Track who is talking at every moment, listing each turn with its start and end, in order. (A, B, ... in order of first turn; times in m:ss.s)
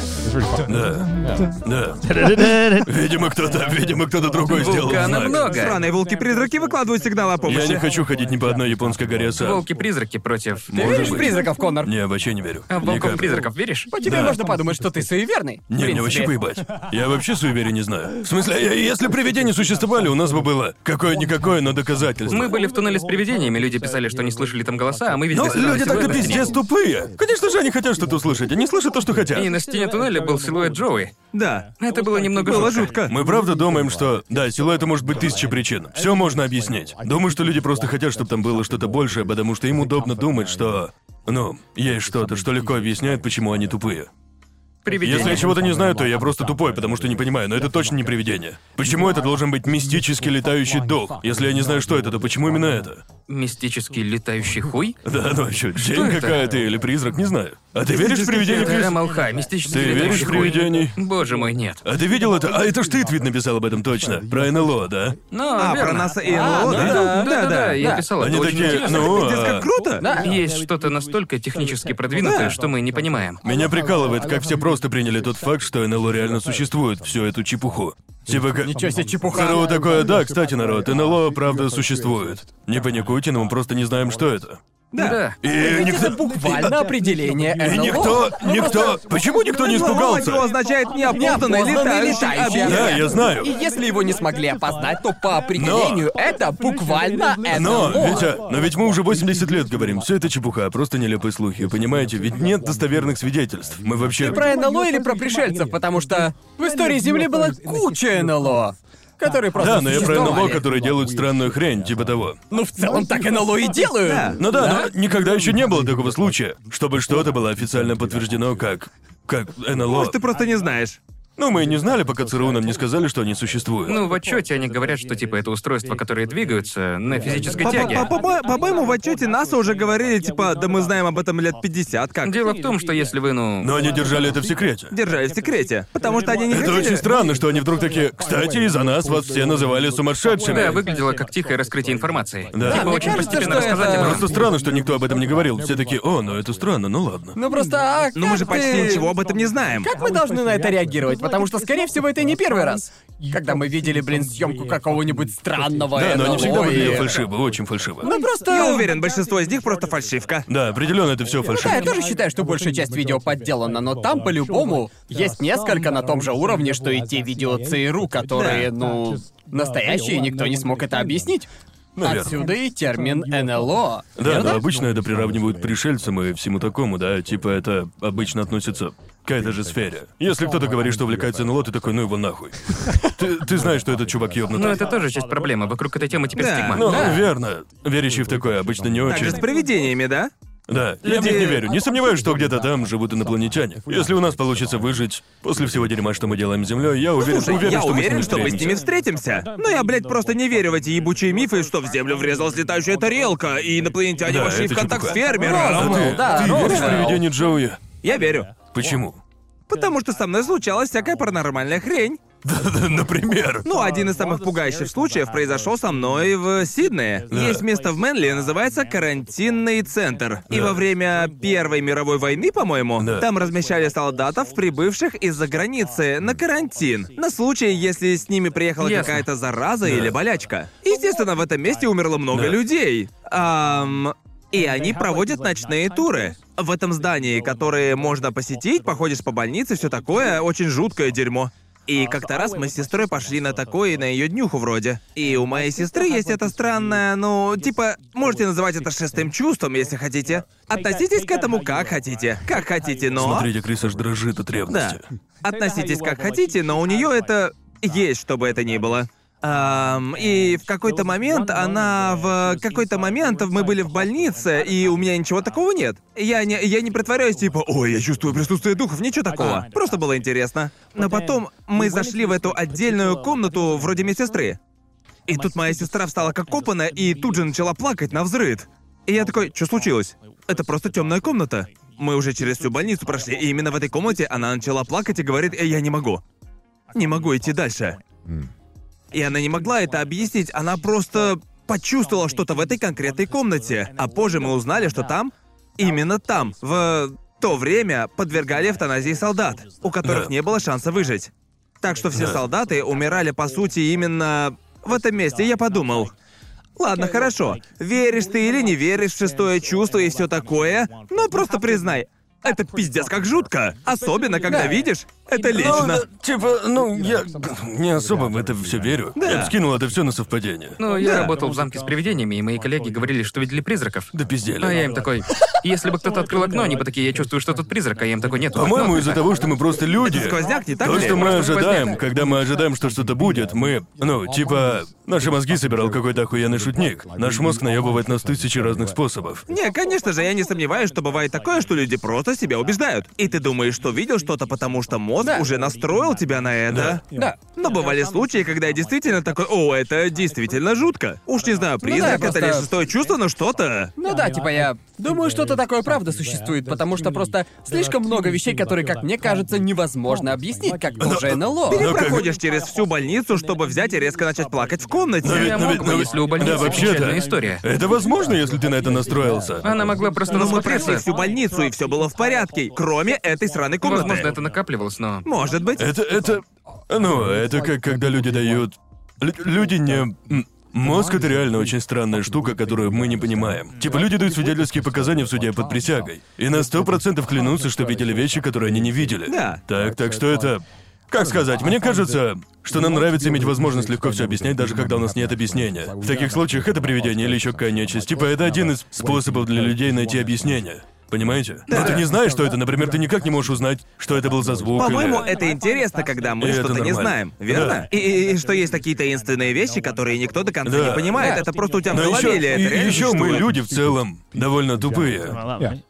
0:00.6-0:05.4 A
0:04.5-0:05.8 B
0:05.2-0:07.8 C
0:07.4-0:09.6 A
0:09.4-0:11.3 B
0:10.7-0:14.4 A
0:10.7-0:11.9 D
0:12.7-0:13.9 B
0:13.9-0:16.3 D
0:15.7-0:22.6 A
0:22.3-0:26.5 B
0:25.3-0:29.5 A
0:29.3-0:31.1 B
0:31.3-0:31.7 C
0:31.8-0:32.9 B
0:32.3-0:33.1 C
0:33.0-0:44.1 A
0:44.8-0:45.5 B
0:45.0-0:53.0 A
0:53.3-0:55.0 B
0:55.0-0:59.0 A
0:55.8-0:56.4 B
0:57.9-0:58.8 C
0:58.3-1:01.8 B
0:59.7-1:01.0 A
1:01.8-1:05.2 A
1:05.3-1:09.2 B
1:05.6-1:07.8 C
1:06.3-1:08.1 D
1:08.2-1:09.7 A
1:08.8-1:10.1 C
1:10.0-1:10.4 D
1:10.1-1:13.4 B
1:12.2-1:12.6 C
1:13.4-1:24.6 A
1:18.6-1:19.8 D
1:24.9-1:25.2 C
1:25.0-1:25.4 B
1:25.4-1:26.8 A
1:25.5-1:29.0 D
1:27.6-1:30.5 A
1:29.5-1:33.0 C
1:31.0-1:38.3 D
1:32.5-1:33.5 A
1:35.5-1:36.1 A
1:37.5-1:44.6 A
1:44.2-1:50.6 D
1:49.5-1:52.4 A
1:52.5-1:54.9 D
1:54.0-1:54.4 C
1:54.4-2:00.2 A
1:59.9-2:01.0 C
2:01.4-2:04.0 A
2:03.8-2:08.1 B
2:07.6-2:12.3 C
2:12.2-2:13.7 B
2:13.6-2:14.9 A
2:14.9-2:17.0 C
2:16.5-2:20.8 A
2:20.4-2:24.3 B
2:22.5-2:27.4 A
2:22.6-2:24.3 D
2:27.3-2:29.1 D
2:28.1-2:29.9 C
2:29.8-2:37.1 D
2:35.9-2:38.1 A
2:38.0-2:38.9 D
2:38.4-2:40.5 C
2:40.5-2:42.0 A
2:41.5-2:51.5 D
2:48.3-2:48.7 C
2:52.0-2:52.4 A
2:52.0-2:54.6 D
2:54.2-3:04.8 A
3:04.5-3:07.0 B
3:06.3-3:06.9 C
3:06.7-3:09.4 A
3:06.8-3:07.3 D
3:09.1-3:10.3 C
3:10.7-3:18.8 A
3:11.0-3:11.6 C
3:17.2-3:27.1 C
3:24.2-3:27.8 A
3:25.4-3:27.2 D
3:28.0-3:28.5 C
3:28.7-3:29.2 A
3:29.7-3:32.2 C
3:32.4-3:33.7 A
3:33.6-4:13.5 C
3:37.3-3:37.6 A
3:40.5-3:40.8 A
3:43.0-3:43.3 A
3:48.8-3:49.2 B
3:49.8-3:50.1 A
3:52.3-3:52.6 A
4:13.2-4:15.1 A
4:14.7-4:34.6 C
4:35.3-4:46.2 C
4:46.9-4:48.0 C
4:49.1-5:01.3 C
5:00.0-5:00.3 A
5:01.8-5:06.1 C
5:02.1-5:02.4 A
5:06.8-5:16.0 C
5:14.5-5:14.8 D
5:15.5-5:20.8 A
5:19.2-5:19.5 C
5:20.8-5:29.2 B
5:21.0-5:21.3 C
5:24.1-5:24.8 A
5:28.5-5:39.4 A
5:30.0-5:31.3 C
5:30.9-5:31.9 B
5:39.5-5:53.9 C
5:45.2-5:45.5 D
5:46.7-5:47.0 A
5:47.1-5:47.4 D
5:51.8-5:52.7 D
5:54.0-6:01.9 D
6:01.0-6:02.3 A
6:01.7-6:05.8 C
6:05.2-6:09.9 A
6:05.2-6:07.6 B
6:09.6-6:11.0 B
6:10.3-6:14.3 C
6:13.8-6:15.3 B
6:15.2-6:15.9 C
6:15.8-6:45.3 A
6:29.2-6:29.6 C
6:41.7-6:42.0 C
6:44.8-6:53.5 C
6:46.4-6:47.8 A
6:50.6-6:51.3 A
6:51.2-6:51.4 D
6:51.9-6:55.4 A